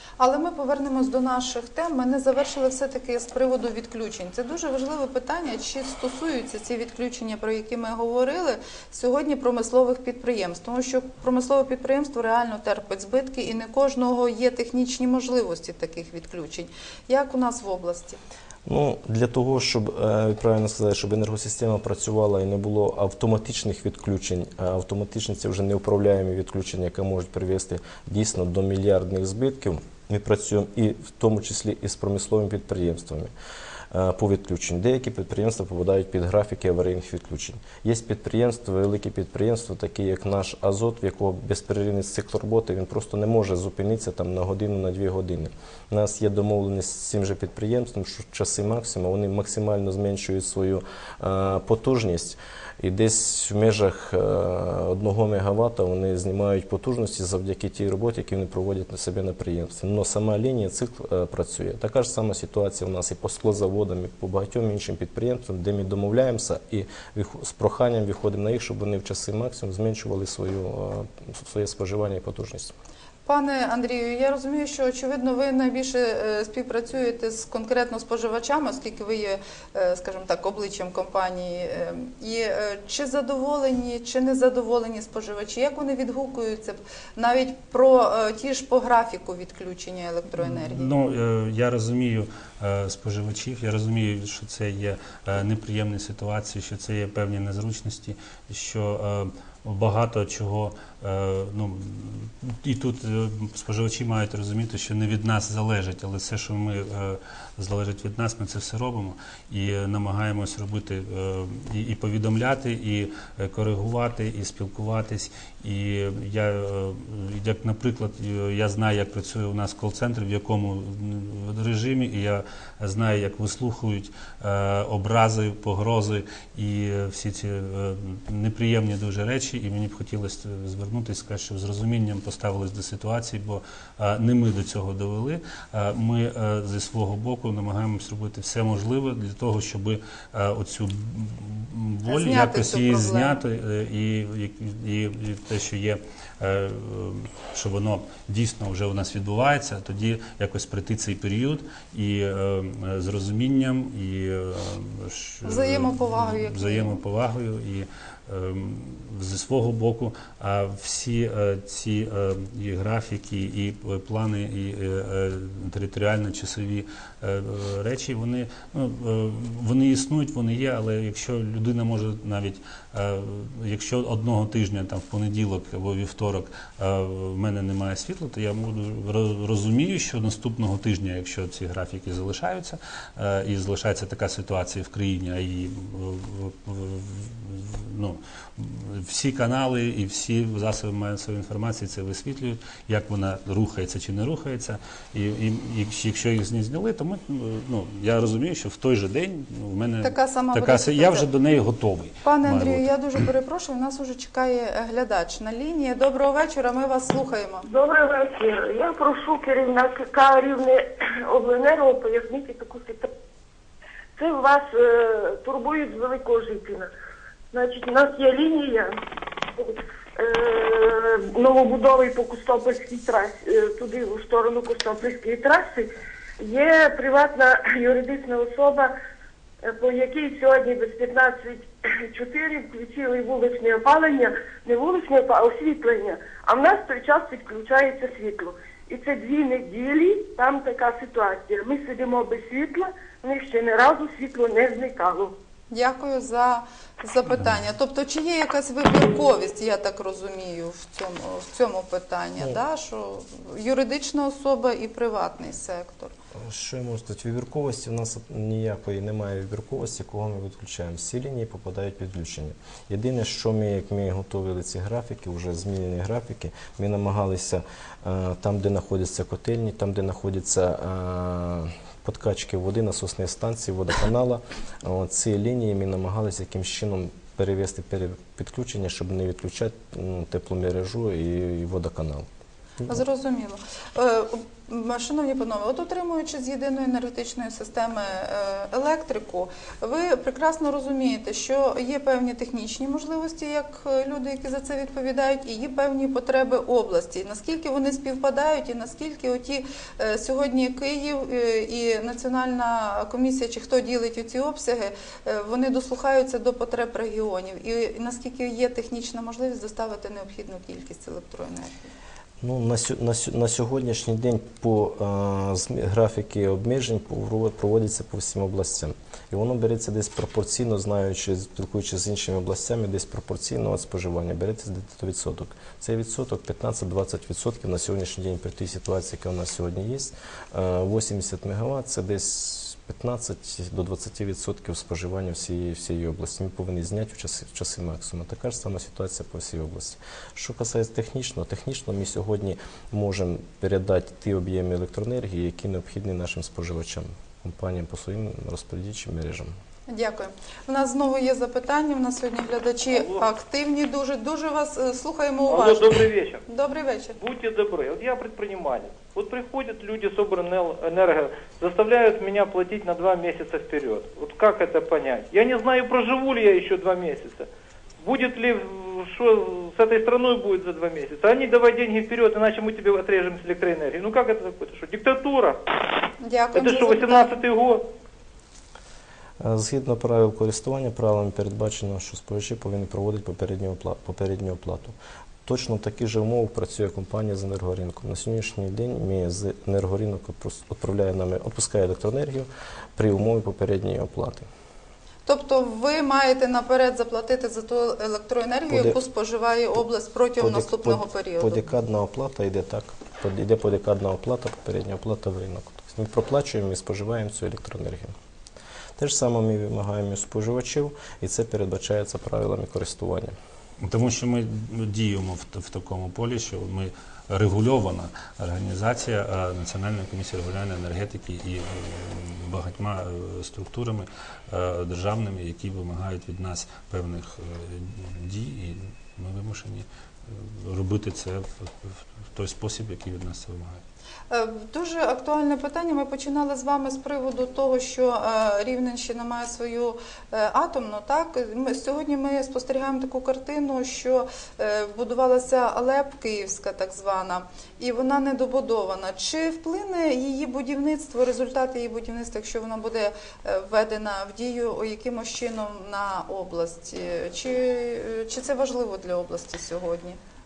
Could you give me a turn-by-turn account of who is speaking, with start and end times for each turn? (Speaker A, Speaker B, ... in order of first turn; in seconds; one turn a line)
Speaker A: 0.2-18.2
Speaker B: 18.6-33.3
Speaker B: 33.9-72.7
Speaker A: 73.2-90.9
Speaker C: 90.4-202.9
Speaker A: 142.1-143.4
Speaker A: 155.4-157.0
Speaker A: 200.0-201.2
Speaker A: 202.2-207.6
Speaker D: 207.6-213.1
Speaker D: 214.2-216.9
Speaker D: 217.5-218.9
Speaker D: 219.6-228.9
Speaker D: 229.6-245.3
Speaker A: 245.7-256.1
Speaker B: 256.3-282.3
Speaker A: 282.9-311.7
Speaker B: 312.4-349.5
Speaker A: 349.9-357.1
Speaker E: 352.9-353.2
Speaker E: 355.5-356.4
Speaker E: 357.2-367.5
Speaker E: 368.0-375.6
Speaker A: 376.2-377.4
Speaker E: 376.5-377.8
Speaker B: 379.4-384.9
Speaker B: 385.4-394.4
Speaker A: 395.2-401.6
Speaker B: 398.7-399.0
Speaker B: 400.4-408.1
Speaker B: 409.0-413.3
Speaker C: 413.8-433.8
Speaker A: 434.3-460.2